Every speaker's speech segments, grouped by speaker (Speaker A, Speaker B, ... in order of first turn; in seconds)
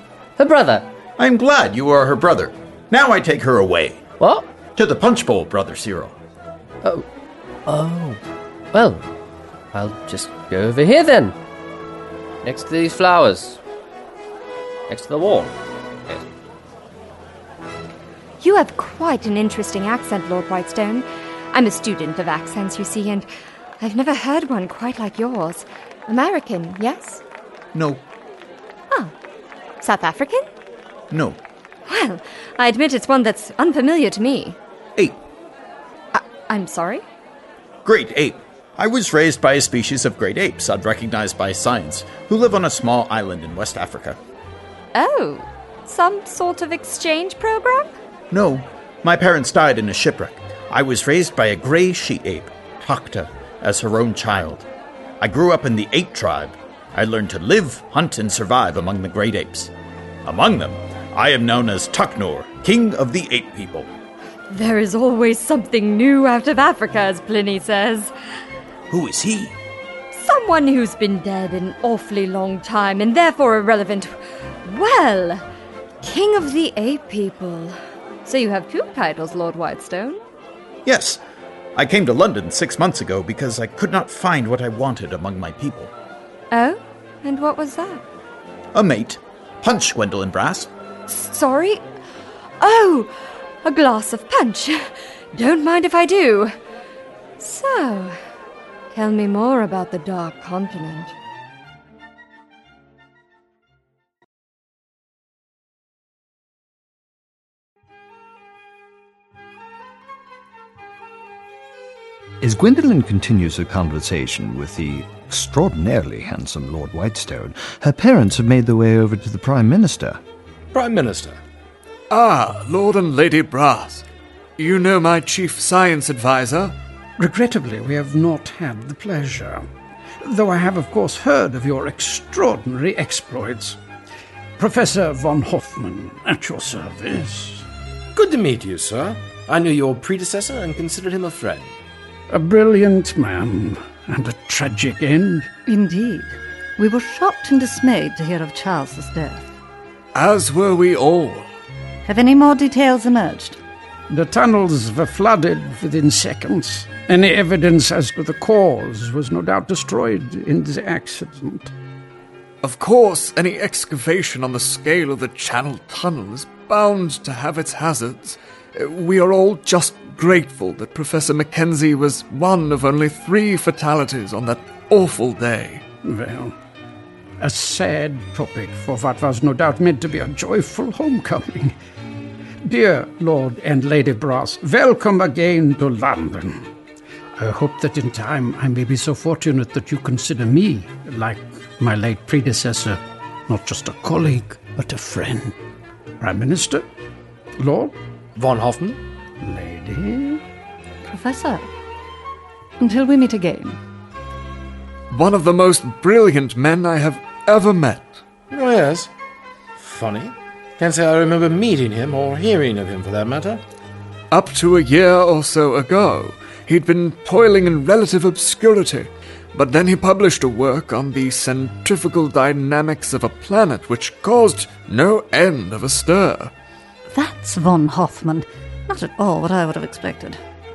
Speaker A: 0.4-0.9, 4.2-4.5, 7.7-8.2, 8.7-9.0, 9.7-11.3, 12.4-13.6, 14.9-15.5
Speaker B: 1.2-4.0, 4.8-6.1, 27.7-28.0, 31.1-31.4, 37.8-44.2, 48.3-54.6, 55.2-59.7, 60.2-63.9, 68.9-69.5, 80.8-81.2, 81.8-85.9, 88.7-90.7
Speaker C: 18.4-23.3, 23.8-27.2, 29.8-30.4, 31.9-34.6, 36.1-37.0, 44.9-47.9, 64.5-68.1, 70.1-75.4, 76.0-80.2, 86.5-88.0, 91.1-91.8, 92.6-96.5, 97.4-98.2, 98.9-101.1
Speaker D: 112.4-120.2
Speaker E: 120.8-121.3, 138.2-141.7, 198.5-198.9, 208.6-209.0, 209.8-210.3, 210.8-213.4
Speaker F: 122.1-124.0, 124.6-126.7, 150.1-151.5, 162.6-175.8, 205.1-208.2, 214.3-226.5
Speaker G: 127.2-129.6, 130.2-133.8, 134.6-137.6, 142.3-145.5, 154.1-161.7, 176.0-176.5, 177.4-181.7, 182.6-186.7, 187.4-195.5, 196.2-196.8, 197.6-197.9, 199.4-200.4
Speaker H: 145.7-149.4, 152.1-153.6, 201.1-201.7, 202.8-203.8, 227.1-230.4